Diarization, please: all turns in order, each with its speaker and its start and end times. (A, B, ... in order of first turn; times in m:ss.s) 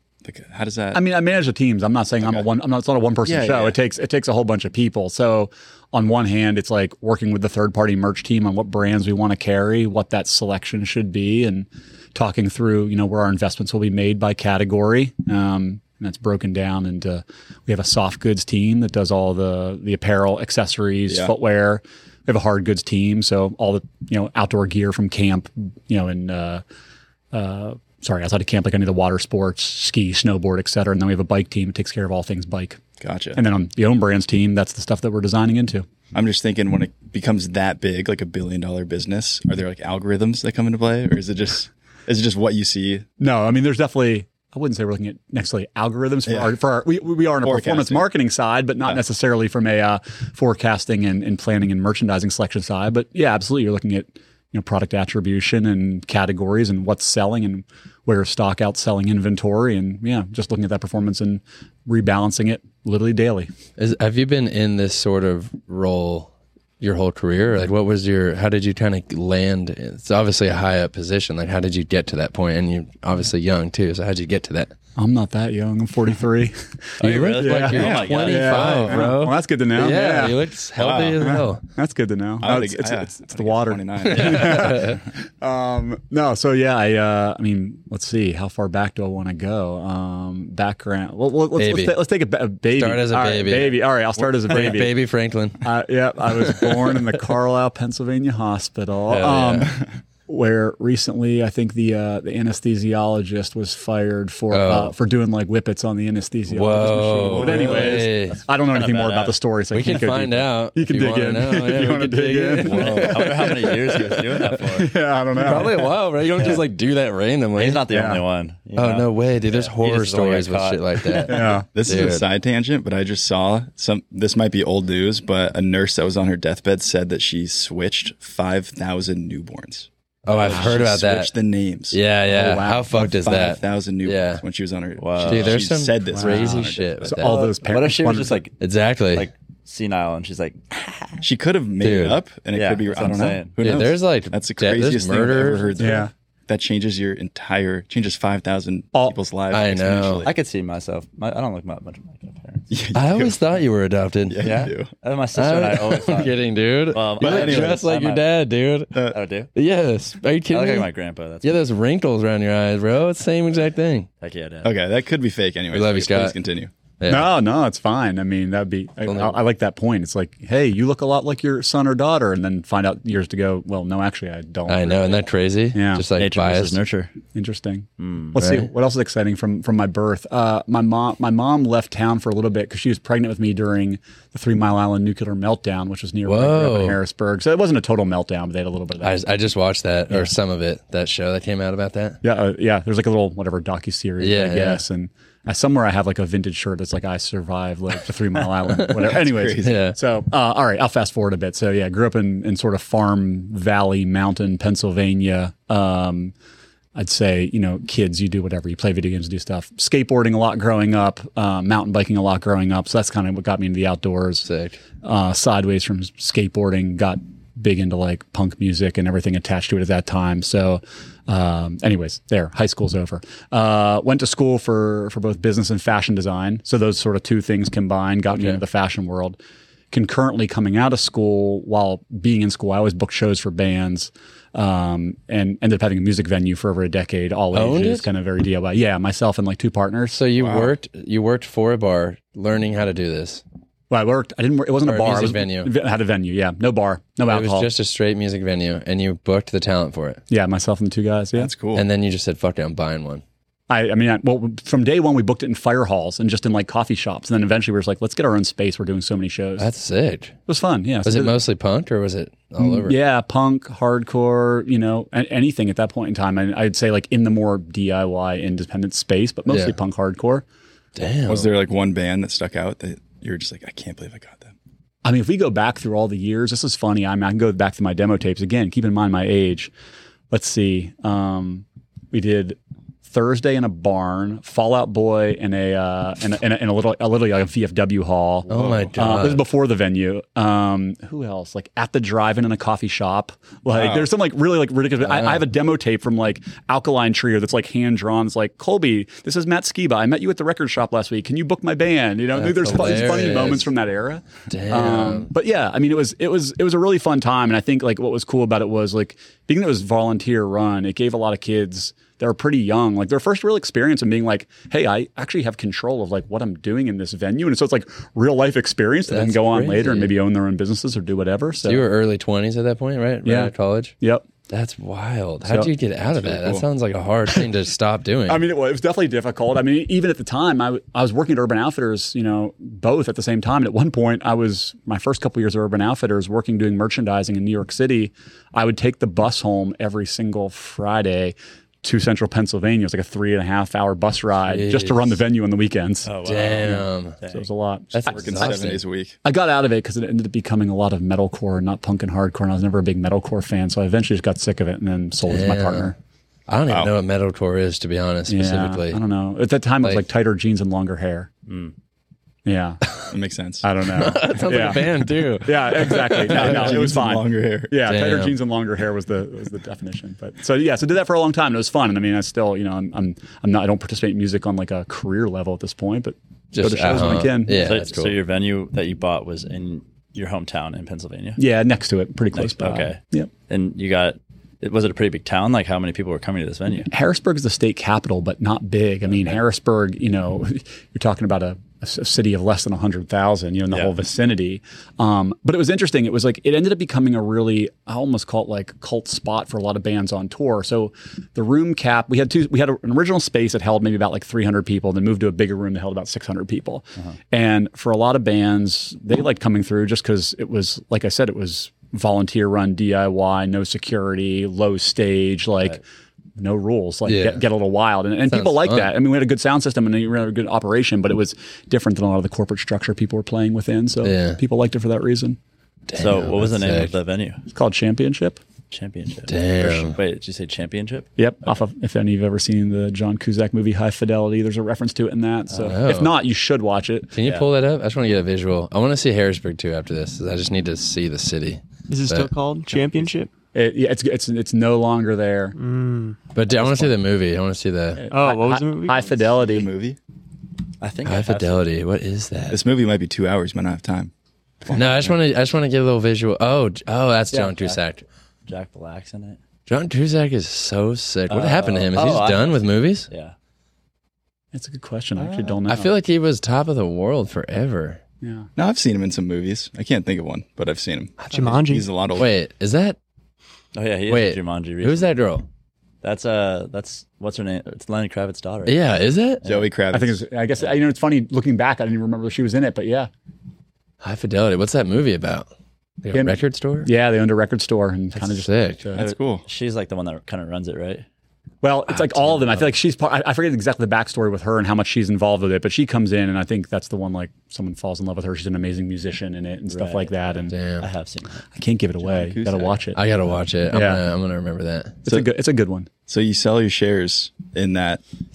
0:00.2-0:01.0 A
0:00.9-0:26.6 B
0:03.2-0:03.8 A
0:21.1-0:21.3 A
0:27.3-0:32.8 B
0:33.0-0:33.4 A
0:33.3-0:35.8 B
0:36.1-0:43.1 A
0:43.2-1:03.5 B
0:46.3-0:46.5 A
0:47.4-0:48.0 A
1:03.8-1:14.7 C
1:15.0-1:20.4 B
1:17.0-1:21.6 C
1:17.0-1:18.9 D
1:17.7-1:18.9 A
1:20.8-1:21.4 A
1:21.2-1:34.9 B
1:22.4-1:24.9 A
1:24.0-1:25.0 C
1:31.6-1:32.0 C
1:32.7-1:33.9 C
1:34.4-1:35.6 C
1:35.6-1:53.7 B
1:36.3-1:37.0 C
1:39.1-1:39.7 C
1:44.5-1:44.9 C
1:46.5-1:48.4 C
1:47.3-1:47.8 A
1:47.4-1:49.4 D
1:49.7-1:54.5 C
1:52.7-1:54.9 D
1:54.6-1:55.9 B
1:55.3-1:57.9 C
1:57.6-2:01.5 D
1:57.9-1:58.2 B
1:58.7-2:02.2 C
2:01.3-2:01.7 B
2:01.7-2:12.0 A
2:10.2-2:11.3 C
2:11.9-2:14.4 C
2:12.3-2:12.9 B
2:12.9-2:17.3 A
2:15.0-2:15.6 D
2:15.2-2:17.4 C
2:16.1-2:18.4 B
2:17.0-2:18.6 D
2:18.6-2:19.3 C
2:19.1-2:21.2 D
2:21.2-2:30.3 A
2:21.8-2:22.2 C
2:22.5-2:23.8 D
2:23.6-2:25.9 C
2:25.8-2:26.1 B
2:29.5-2:30.3 C
2:30.2-2:32.7 D
2:32.7-2:33.4 A
2:32.9-2:34.6 C
2:34.3-2:34.9 A
2:34.4-2:38.3 D
2:35.3-2:39.0 C
2:37.2-2:37.8 A
2:39.1-2:39.5 D
2:39.5-2:40.9 C
2:40.5-2:41.6 D
2:41.4-2:44.1 C
2:44.2-2:44.7 D
2:44.6-2:46.7 A
2:45.7-2:46.4 C
2:47.0-2:47.3 C
2:47.1-2:55.2 B
2:49.0-2:49.4 C
2:54.7-2:56.8 C
2:55.7-2:56.0 B
2:56.2-2:57.1 D
2:57.3-3:09.2 B
2:58.0-2:58.3 D
2:58.4-2:58.7 C
3:06.2-3:07.0 C
3:09.0-3:12.2 C
3:12.2-3:26.3 B
3:14.2-3:14.8 C
3:18.7-3:19.0 C
3:19.0-3:19.8 A
3:19.6-3:20.0 C
3:27.0-3:34.5 B
3:34.4-3:34.8 C
3:35.0-3:49.4 B
3:48.3-3:48.6 C
3:49.9-4:00.2 B
3:57.5-3:58.1 C
4:00.1-4:03.4 C
4:00.4-4:00.7 A
4:03.9-4:07.7 B
4:04.8-4:05.7 C
4:07.2-4:10.2 C
4:10.3-4:11.5 B
4:11.4-4:11.8 A
4:11.7-4:13.2 C
4:13.7-4:19.7 B
4:19.6-4:20.4 C
4:20.5-4:21.4 B
4:21.0-4:23.0 C
4:22.6-4:30.4 B
4:29.5-4:29.7 C
4:31.0-4:31.5 C
4:31.3-4:34.5 A
4:35.0-4:39.7 B
4:40.3-5:21.8 B
4:48.5-4:49.4 C
4:48.5-4:49.0 A
4:53.7-4:54.1 A
4:55.0-4:55.5 C
5:02.3-5:03.7 C
5:04.5-5:05.3 C
5:19.1-5:20.1 C
5:21.6-5:23.9 C
5:23.2-5:24.2 B
5:24.5-5:28.4 C
5:25.4-5:25.7 B
5:26.1-5:26.6 A
5:28.3-5:46.1 B
5:44.4-5:45.2 C
5:46.0-5:47.5 D
5:46.2-5:47.2 C
5:46.6-5:48.5 B
5:47.9-5:48.8 C
5:48.0-5:49.2 A
5:49.2-5:56.0 B
5:55.2-5:55.9 C
5:56.5-5:59.0 C
5:56.7-5:56.9 A
5:58.3-6:01.3 B
6:01.5-6:01.7 D
6:02.4-6:02.8 B
6:03.1-6:03.6 A
6:03.6-6:17.6 B
6:03.9-6:06.8 C
6:06.2-6:07.7 A
6:07.8-6:08.4 C
6:16.5-6:18.1 C
6:17.5-6:21.4 D
6:21.4-6:23.3 B
6:22.3-6:26.9 D
6:26.9-6:55.8 B
6:56.4-7:05.4 B
6:57.0-6:57.4 C
6:58.3-6:58.9 C
7:04.0-7:04.4 C
7:05.9-7:06.9 C
7:06.0-7:07.4 D
7:07.5-7:08.4 B
7:08.7-7:11.1 D
7:09.3-7:10.0 C
7:11.2-7:17.1 B
7:15.6-7:16.2 C
7:17.1-7:22.3 C
7:17.2-7:17.5 D
7:21.9-7:23.3 E
7:22.7-7:23.1 D
7:23.5-7:25.6 B
7:25.6-7:26.2 E
7:26.3-7:28.0 C
7:26.5-7:26.9 B
7:28.1-7:29.1 E
7:28.1-7:29.7 B
7:29.3-7:30.0 A
7:30.8-7:31.6 D
7:31.0-7:32.6 C
7:32.5-7:34.1 A
7:34.6-7:35.1 A
7:34.7-7:38.0 C
7:38.5-7:39.4 D
7:39.7-7:43.1 C
7:41.3-7:43.3 D
7:44.5-7:45.9 B
7:45.5-7:48.0 C
7:48.2-7:48.5 B
7:48.6-7:52.3 A
7:51.2-7:51.9 E
7:52.1-7:53.0 C
7:53.7-7:55.1 D
7:54.1-7:55.4 C
7:56.0-7:58.8 D
7:58.6-7:59.4 C
7:59.4-7:59.7 D
7:59.4-8:00.2 A
7:59.9-8:03.1 B
8:04.0-8:05.5 C
8:06.0-8:06.9 C
8:06.1-8:09.1 B
8:08.1-8:08.8 C
8:09.0-8:09.4 A
8:09.4-8:11.0 D
8:11.6-8:20.6 B
8:11.9-8:12.7 C
8:19.7-8:21.4 D
8:20.5-8:20.9 C
8:21.5-8:23.0 B
8:22.0-8:22.8 A
8:22.9-8:25.0 C
8:23.7-8:24.0 B
8:25.0-8:25.9 B
8:26.1-8:28.0 A